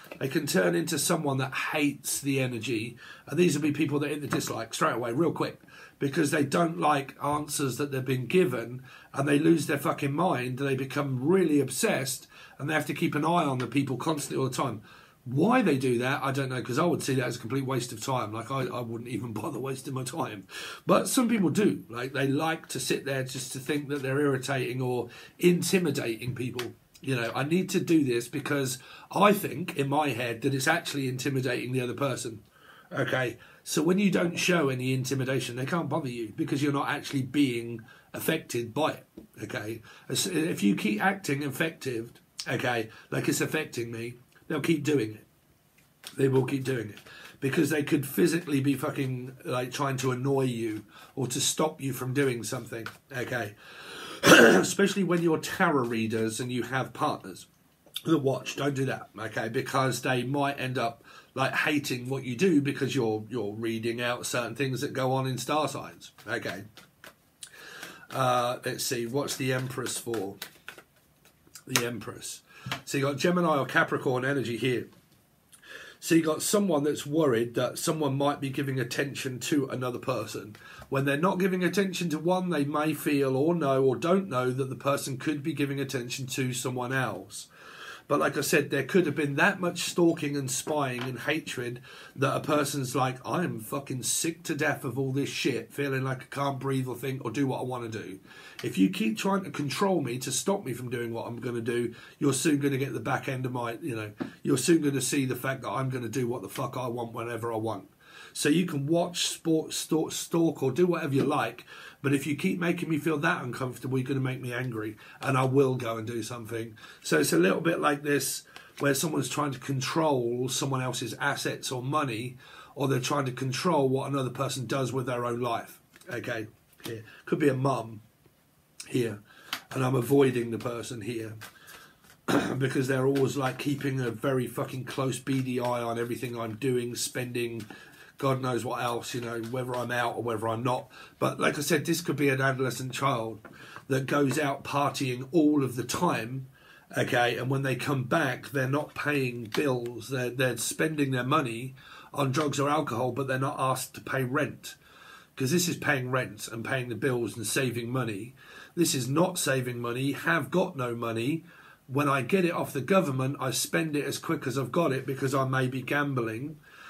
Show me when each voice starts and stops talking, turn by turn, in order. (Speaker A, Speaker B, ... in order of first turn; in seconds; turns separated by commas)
Speaker A: 0.2-45.2, Speaker A: 46.1-57.5, Speaker A: 58.0-66.6, Speaker A: 68.1-70.4, Speaker A: 71.7-74.9, Speaker A: 76.0-87.5, Speaker A: 88.1-128.0, Speaker A: 128.9-129.2, Speaker A: 129.7-131.4, Speaker A: 132.3-137.7, Speaker A: 138.2-154.8, Speaker A: 155.3-166.6